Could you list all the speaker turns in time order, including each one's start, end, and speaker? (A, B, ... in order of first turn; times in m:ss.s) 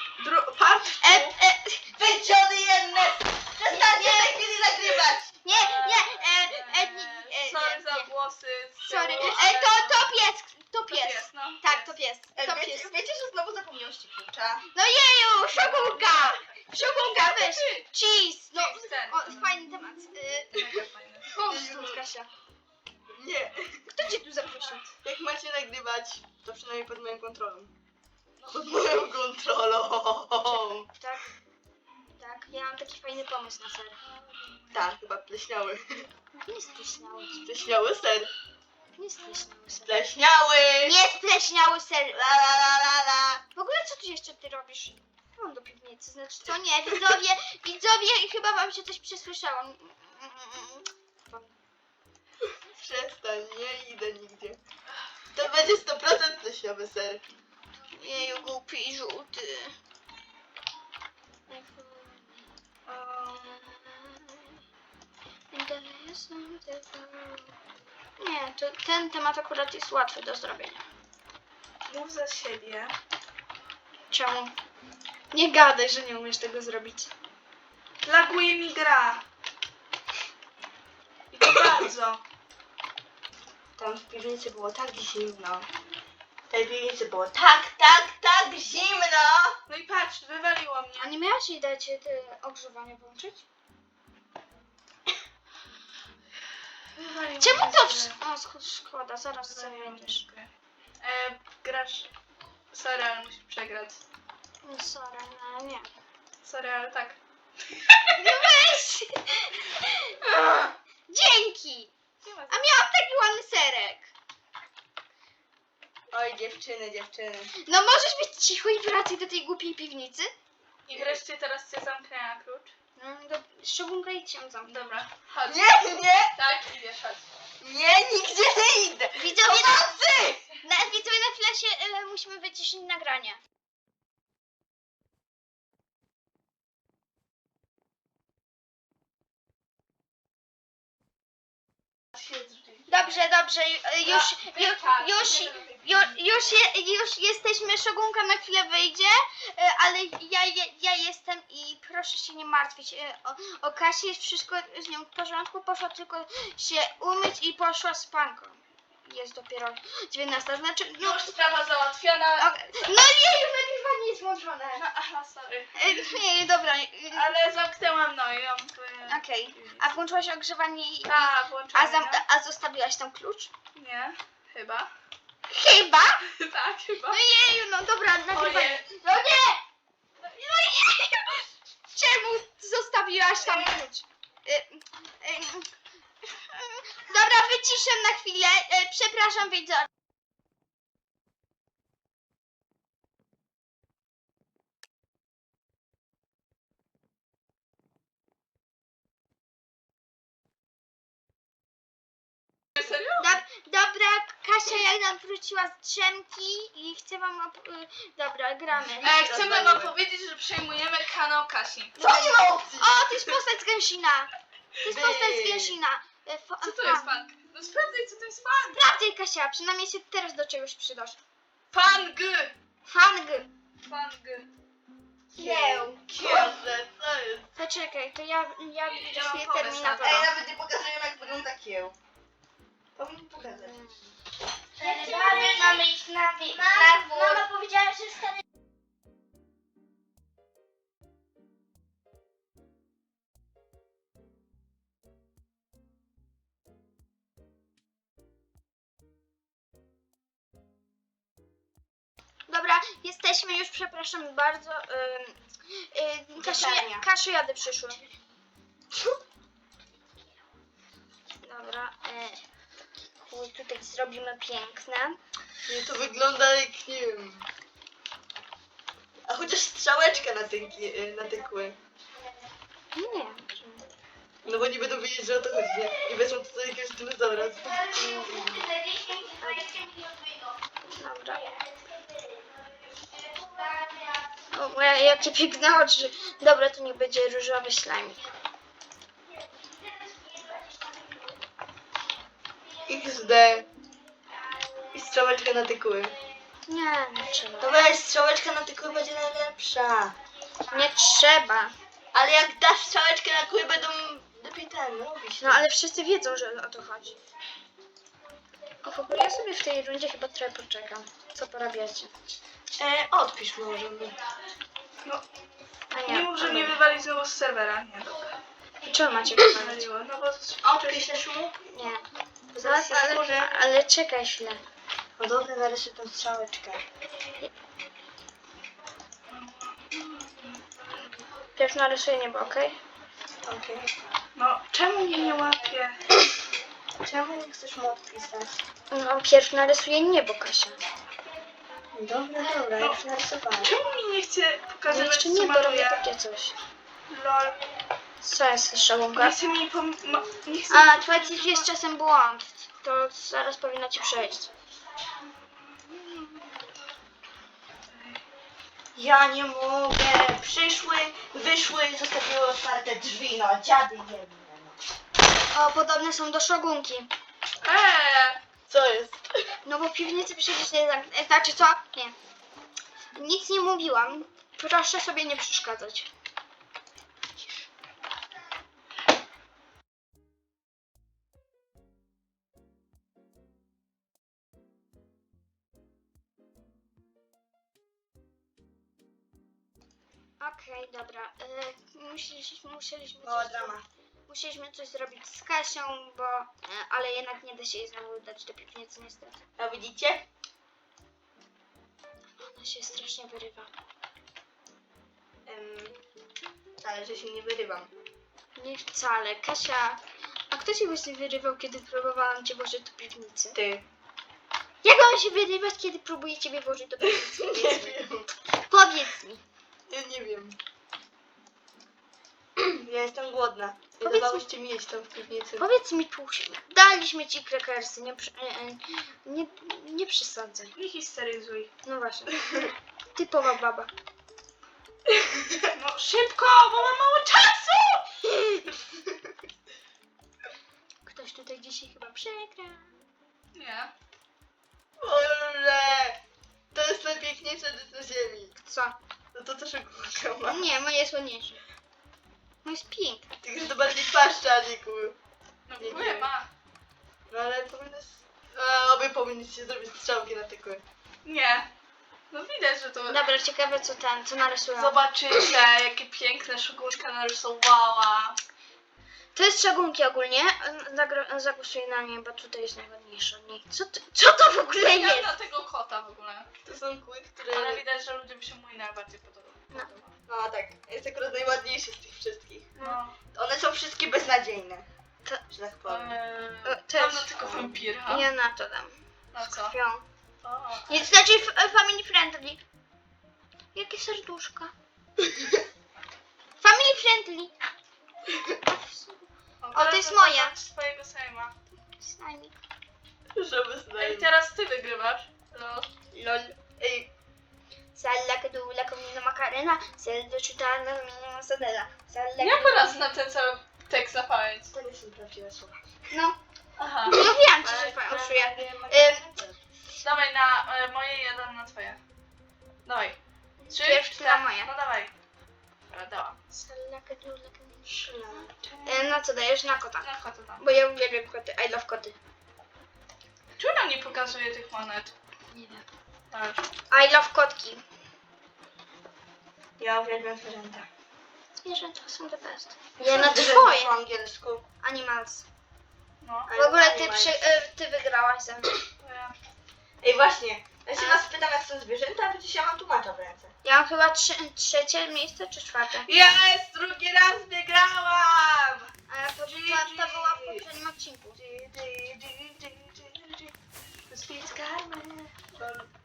0:00.2-0:01.4 A
0:01.0-0:01.9 B
0:01.9-0:05.3 C
0:03.7-0:08.1 B
0:05.5-0:10.0 A
0:08.8-0:12.9 B
0:10.9-0:11.9 A
0:12.4-0:14.6 C
0:14.7-0:20.7 B
0:15.6-0:17.9 A
0:18.5-0:19.6 A
0:20.6-0:21.4 A
0:21.3-0:22.3 B
0:21.4-0:22.0 C
0:23.1-0:23.9 C
0:23.9-0:24.9 B
0:25.0-0:27.7 C
0:28.4-0:30.9 C
0:30.4-0:31.3 B
0:32.2-0:34.0 B
0:34.7-0:36.1 C
0:36.4-0:37.5 B
0:37.4-0:38.3 C
0:39.0-0:40.0 B
0:39.8-0:41.0 C
0:40.8-0:42.2 B
0:42.1-0:43.4 C
0:43.6-0:51.6 B
0:52.7-0:54.6 C
0:55.3-0:57.2 C
0:57.9-0:59.7 B
1:01.5-1:02.5 B
1:02.9-1:03.6 A
1:03.5-1:04.6 B
1:05.5-1:07.5 B
1:08.2-1:10.8 B
1:11.9-1:13.0 A
1:14.1-1:14.5 B
1:15.3-1:17.1 B
1:18.0-1:19.2 A
1:21.3-1:22.2 A
1:23.8-1:25.7 C
1:26.5-1:29.6 C
1:29.7-1:31.1 A
1:31.0-1:33.4 B
1:37.0-1:38.2 A
1:37.4-1:40.2 B
1:39.4-1:40.5 A
1:41.0-1:42.1 A
1:42.7-1:44.0 A
1:44.6-1:45.9 B
1:46.4-1:47.2 A
1:48.1-1:51.9 B
1:52.2-1:52.9 A
1:52.5-1:54.1 B
1:56.1-1:57.5 C
1:57.6-2:00.3 B
2:00.9-2:02.7 A
2:00.9-2:01.2 C
2:03.0-2:04.9 B
2:04.7-2:07.2 A
2:05.4-2:06.3 C
2:07.6-2:10.4 C
2:09.2-2:10.0 B
2:10.6-2:13.4 B
2:22.1-2:23.2 A
2:22.9-2:41.3 B
2:24.0-2:26.5 A
2:41.0-2:42.5 A
2:42.4-2:44.8 B
2:44.8-2:46.2 A
2:45.8-2:47.3 B
2:47.1-2:49.9 A
2:49.1-2:53.5 B
2:51.0-2:52.2 A
2:53.8-2:54.9 A
2:55.5-2:56.3 B
2:56.3-2:57.2 A
2:57.1-2:59.6 B
2:58.3-2:58.9 A
3:00.2-3:05.7 B
3:03.5-3:03.8 C
3:06.5-3:09.9 B
3:22.8-3:23.2 A
3:23.2-3:29.3 B
3:29.0-3:31.9 A
3:29.0-3:29.9 C
3:32.0-3:34.3 B
3:32.0-3:33.3 C
3:34.8-3:37.1 B
3:34.8-3:35.8 C
3:36.6-3:38.8 A
3:38.6-3:41.2 B
3:41.7-3:42.5 A
3:42.9-3:43.5 B
3:43.8-3:44.5 A
3:45.3-3:46.0 B
3:45.3-3:47.5 C
3:46.2-3:46.5 A
3:47.6-3:50.3 B
3:48.8-3:50.3 A
3:50.0-3:52.0 C
3:53.0-3:53.8 C
3:53.4-3:54.1 B
3:54.8-3:57.5 B
4:12.5-4:18.1 B
4:16.4-4:17.1 C
4:18.9-4:19.2 C
4:21.4-4:22.4 B
4:23.2-4:25.2 B
4:25.6-4:27.5 C
4:29.2-4:31.8 C
4:33.0-4:33.8 B
4:34.4-4:38.7 C
4:37.7-4:40.1 B
4:40.8-4:41.5 B
4:43.2-4:43.8 B
4:44.4-4:48.3 B
4:52.9-4:53.7 C
4:54.9-4:56.2 C
4:56.7-4:57.8 B
4:57.6-5:00.2 C
5:00.7-5:01.8 B
5:02.1-5:05.6 C
5:05.4-5:07.2 B
5:08.8-5:12.1 B
5:12.7-5:14.2 C
5:15.9-5:16.7 B
5:16.0-5:18.4 A
5:16.4-5:16.7 C
5:18.8-5:19.8 B
5:19.3-5:21.2 A
5:20.6-5:21.5 C
5:21.7-5:22.0 B
5:22.5-5:23.5 C
5:22.6-5:24.6 B
5:25.2-5:26.8 C
5:29.3-5:30.6 A
5:31.6-5:32.8 B
5:33.4-5:33.9 C
5:34.4-5:36.2 A
5:37.0-5:38.6 C
5:38.9-5:40.8 B
5:41.9-5:43.8 C
5:43.6-5:46.0 A
5:44.9-5:46.6 B
5:47.1-5:47.6 A
5:48.2-5:49.4 B
5:49.2-5:51.6 A
5:50.7-5:54.5 B
5:57.9-5:58.2 A
5:59.0-6:04.8 C
6:05.5-6:07.1 B
6:07.6-6:08.4 A
6:08.7-6:09.3 C
6:09.6-6:12.2 B
6:13.2-6:16.1 B
6:30.4-6:33.8 B
6:33.2-6:33.9 C
6:34.3-6:39.4 B
6:39.6-6:40.3 C
6:42.4-6:43.7 B
6:45.5-6:46.0 C
6:46.8-6:47.9 C
6:48.6-6:53.6 B
6:53.5-6:53.8 C
6:54.8-6:58.0 B
6:57.0-6:58.3 C
6:58.7-6:59.4 B
6:59.9-7:00.6 C
7:02.6-7:05.7 C
7:04.0-7:04.5 B
7:05.6-7:10.8 B
7:10.8-7:11.7 A
7:11.8-7:13.9 B
7:15.4-7:15.7 C
7:15.7-7:18.4 A
7:21.0-7:22.9 B
7:23.5-7:23.9 A
7:25.0-7:26.2 C
7:26.7-7:28.6 C
7:28.6-7:29.0 B
7:29.3-7:30.7 C
7:30.4-7:31.6 B
7:32.6-7:33.3 B
7:33.4-7:35.2 C
7:35.7-7:36.5 A
7:35.8-7:36.3 C
7:37.3-7:40.8 C
7:41.2-7:41.7 A
7:42.3-7:43.2 A
7:43.1-7:45.0 B
7:44.8-7:48.4 A
7:49.4-7:55.3 B
7:54.8-7:56.5 A
7:56.6-7:57.8 C
7:57.5-8:00.2 A
8:00.3-8:02.7 C
8:02.8-8:03.2 A
8:03.3-8:04.9 C
8:05.5-8:06.2 C
8:05.9-8:08.3 A
8:06.6-8:10.1 B
8:07.4-8:07.8 C
8:09.3-8:09.8 A
8:10.4-8:11.2 A
8:10.9-8:12.6 B
8:13.8-8:14.7 B
8:15.2-8:15.6 C
8:16.6-8:17.5 B
8:18.5-8:20.5 B
8:19.6-8:21.6 A
8:22.0-8:22.5 B
8:23.4-8:24.3 C
8:24.0-8:25.9 A
8:26.1-8:27.1 C
8:28.0-8:32.9 B
8:32.4-8:34.7 A
8:34.7-8:35.8 C
8:36.1-8:36.4 B
8:36.8-8:37.2 A
8:37.1-8:39.2 B
8:37.1-8:39.6 C
8:40.0-8:42.0 A
8:42.9-8:43.2 A
8:43.6-8:44.7 B
8:43.7-8:45.1 A
8:45.9-8:46.4 A
8:46.6-8:50.1 B
8:47.9-8:49.0 C
8:50.0-8:50.6 A
8:50.6-8:52.2 B
8:53.6-8:55.1 A
8:55.5-8:55.8 B
8:56.3-8:56.7 A
8:56.9-8:57.8 B
8:59.8-9:00.9 C
9:01.6-9:03.9 B
9:03.0-9:04.6 C
9:04.8-9:05.5 B
9:06.2-9:06.5 A
9:06.5-9:07.4 C
9:06.5-9:08.8 B
9:09.0-9:09.4 A
9:10.0-9:13.5 C
9:11.0-9:11.2 B
9:13.6-9:16.1 B
9:16.1-9:18.8 A
9:19.1-9:21.4 B
9:19.5-9:20.5 A
9:21.4-9:23.3 C
9:24.1-9:25.2 A
9:25.2-9:25.9 C